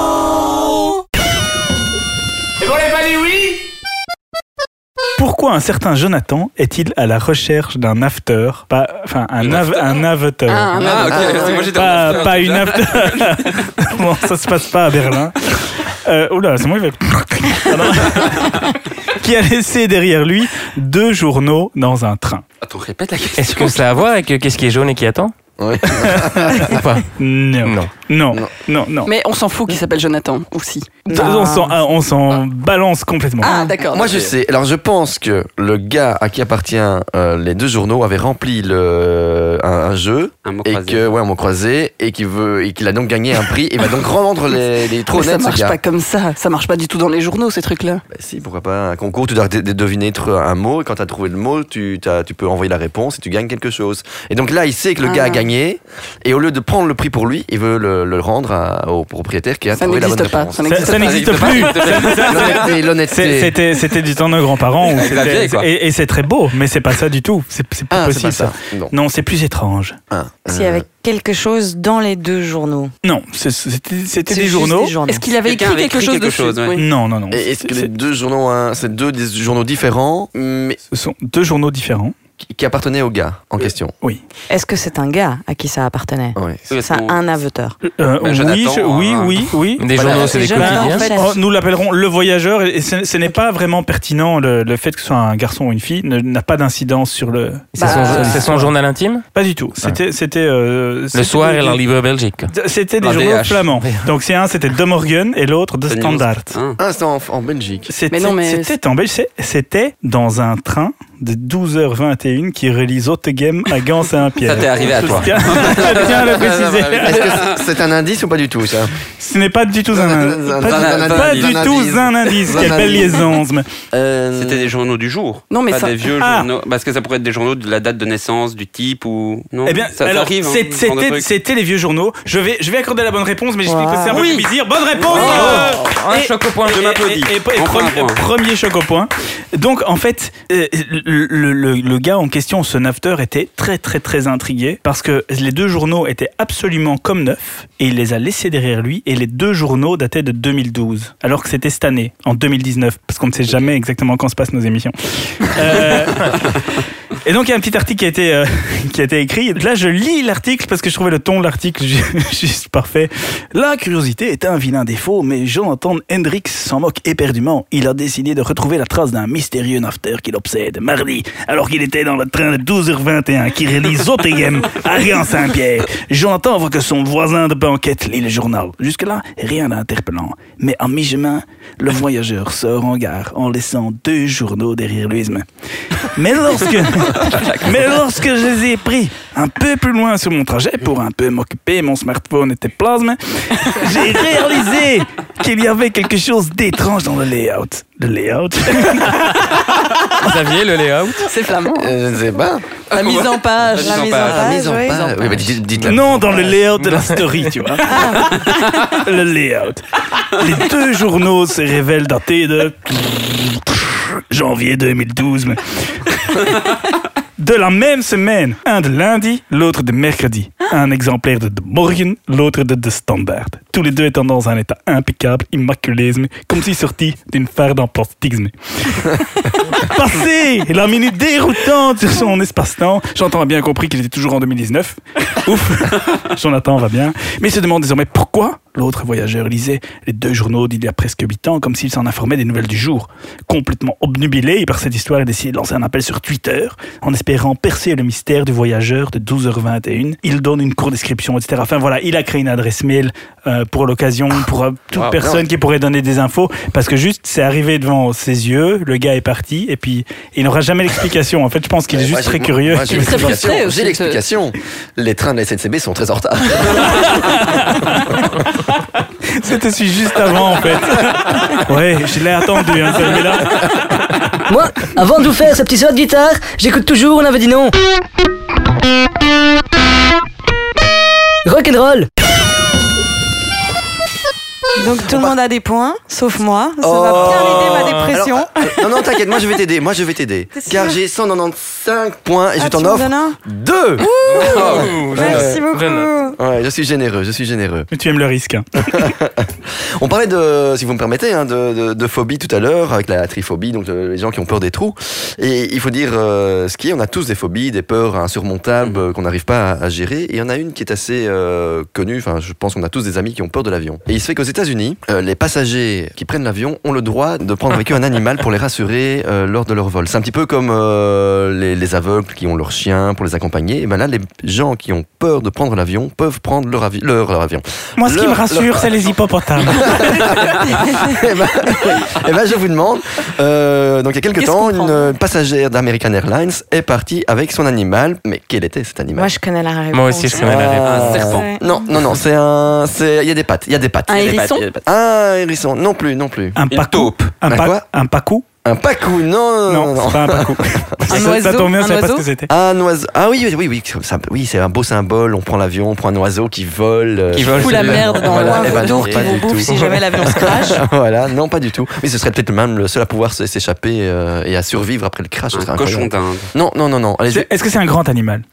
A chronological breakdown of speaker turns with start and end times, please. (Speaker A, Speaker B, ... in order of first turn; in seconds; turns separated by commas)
Speaker A: 5.2-10.9, Speaker B: 9.4-10.1, Speaker C: 10.5-11.7, Speaker B: 10.8-13.7, Speaker D: 10.9-11.4, Speaker A: 11.7-22.4, Speaker B: 22.6-24.0, Speaker E: 23.4-25.3, Speaker D: 25.6-26.8, Speaker A: 25.9-26.3, Speaker E: 26.6-27.1, Speaker A: 27.2-29.1, Speaker E: 27.6-27.9, Speaker C: 29.1-31.2, Speaker F: 31.1-31.8, Speaker A: 31.1-33.5, Speaker C: 33.4-34.2, Speaker F: 33.4-33.8, Speaker D: 33.9-45.8, Speaker B: 40.5-41.0, Speaker C: 45.1-48.0, Speaker D: 48.1-60.9, Speaker C: 55.0-55.5, Speaker C: 59.8-62.1, Speaker A: 60.7-70.0, Speaker B: 60.8-62.8, Speaker D: 62.2-63.6, Speaker B: 64.8-65.7, Speaker D: 67.9-69.0, Speaker D: 70.1-70.9, Speaker F: 70.5-72.9, Speaker A: 73.0-74.9, Speaker F: 74.3-75.3, Speaker C: 75.1-76.8, Speaker B: 75.4-76.8, Speaker A: 76.8-77.9, Speaker D: 77.3-80.8, Speaker A: 80.9-82.1, Speaker D: 82.4-83.9, Speaker F: 84.5-87.8, Speaker D: 86.4-86.6, Speaker B: 86.7-87.2, Speaker A: 87.8-98.7, Speaker B: 88.2-90.3, Speaker E: 89.8-91.1, Speaker F: 90.0-91.4, Speaker E: 97.8-99.2, Speaker C: 97.8-98.5, Speaker A: 99.3-101.8, Speaker E: 101.1-102.5, Speaker A: 102.5-106.6, Speaker B: 103.0-103.7, Speaker B: 105.9-106.8, Speaker D: 106.8-107.9, Speaker A: 107.9-117.4, Speaker C: 108.1-108.8, Speaker B: 114.4-117.6, Speaker D: 117.0-118.9, Speaker A: 119.2-123.7, Speaker D: 119.9-123.3, Speaker B: 120.6-121.9, Speaker D: 123.9-124.7, Speaker B: 124.3-131.3, Speaker C: 125.5-126.0, Speaker A: 126.2-126.5, Speaker A: 129.7-156.6, Speaker F: 133.7-134.3, Speaker B: 134.1-135.8, Speaker E: 135.1-136.8, Speaker B: 136.6-138.2, Speaker A: 157.2-185.5, Speaker A: 186.0-199.7, Speaker E: 200.1-201.3, Speaker C: 201.3-201.9, Speaker D: 201.8-202.7, Speaker C: 202.9-205.5, Speaker B: 202.9-204.4, Speaker F: 203.8-205.2, Speaker D: 204.2-206.5, Speaker A: 205.8-216.8, Speaker E: 206.8-207.5, Speaker F: 207.8-208.5, Speaker A: 217.4-263.4, Speaker D: 254.9-255.5, Speaker D: 261.9-267.4, Speaker C: 262.9-264.2, Speaker A: 266.8-268.2, Speaker A: 269.3-273.6, Speaker G: 274.5-277.7, Speaker G: 281.4-282.1, Speaker F: 284.8-288.9, Speaker D: 285.1-285.4, Speaker D: 286.8-295.6, Speaker E: 287.1-288.1, Speaker F: 290.6-291.0, Speaker F: 292.6-293.4, Speaker C: 294.2-294.9, Speaker E: 294.2-296.1, Speaker F: 294.3-296.4, Speaker B: 294.6-295.0, Speaker D: 296.4-297.9, Speaker A: 297.9-299.1, Speaker D: 298.8-339.3, Speaker A: 328.0-330.0, Speaker C: 334.4-335.1, Speaker F: 339.1-340.5, Speaker E: 339.9-341.2, Speaker D: 340.4-346.6, Speaker B: 340.8-341.5, Speaker F: 341.1-341.8, Speaker C: 344.1-344.7, Speaker B: 344.2-344.8, Speaker A: 346.6-348.4, Speaker B: 346.7-347.3, Speaker D: 347.5-347.9, Speaker D: 348.6-351.2, Speaker A: 349.7-352.5, Speaker C: 351.1-352.3, Speaker D: 352.5-359.7, Speaker E: 357.3-358.8, Speaker C: 357.5-359.6, Speaker F: 358.3-360.8, Speaker E: 359.6-360.3, Speaker D: 360.2-367.5, Speaker B: 365.5-366.5, Speaker A: 367.3-368.4